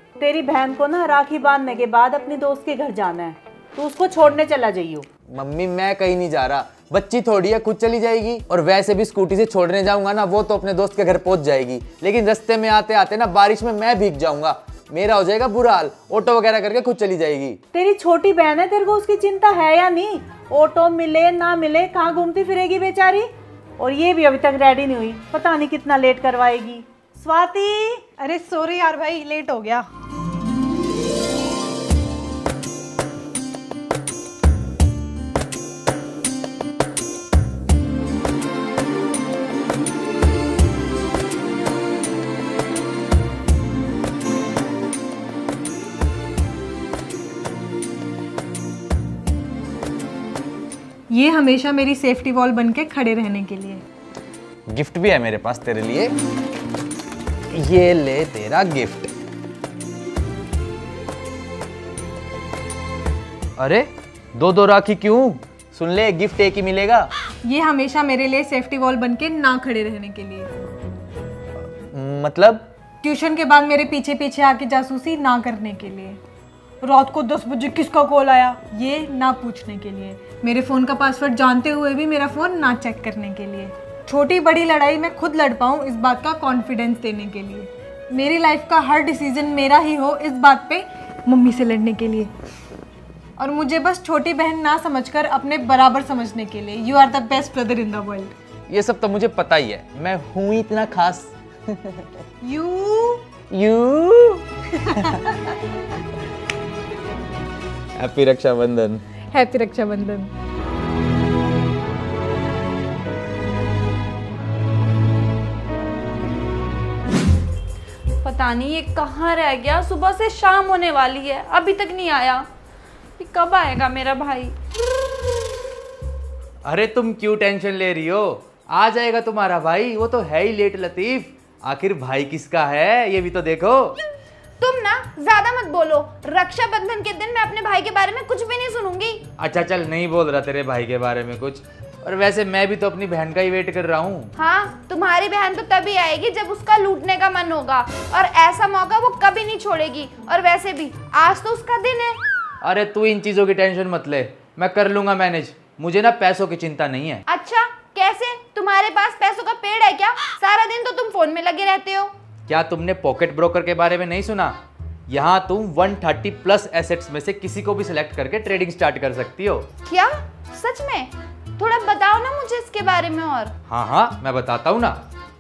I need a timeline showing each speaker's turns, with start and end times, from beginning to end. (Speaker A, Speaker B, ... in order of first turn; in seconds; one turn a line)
Speaker A: 0.2-5.1
Speaker B: 5.3-17.6
Speaker A: 17.7-28.0
Speaker C: 28.2-29.9
Speaker C: 51.1-53.8
Speaker B: 54.7-56.1
Speaker B: 57.5-59.1
Speaker B: 63.6-67.1
Speaker C: 67.4-70.5
Speaker B: 71.9-72.7
Speaker C: 73.0-76.2
Speaker C: 76.8-92.3
Speaker C: 93.4-98.3
Speaker B: 98.7-101.3
Speaker C: 102.4-103.2
Speaker B: 103.5-104.5
Speaker B: 108.0-109.0
Speaker C: 109.3-110.3
Speaker D: 118.2-122.5
Speaker D: 123.2-124.5
Speaker B: 126.7-134.0
Speaker D: 134.6-139.2
Speaker B: 139.4-144.3
Speaker D: 144.4-152.2
Speaker B: 152.6-157.2
Speaker D: 157.3-162.1
Speaker B: 162.5-164.6
Speaker B: 165.1-169.7
Speaker D: 169.9-173.5
Speaker B: 173.7-175.0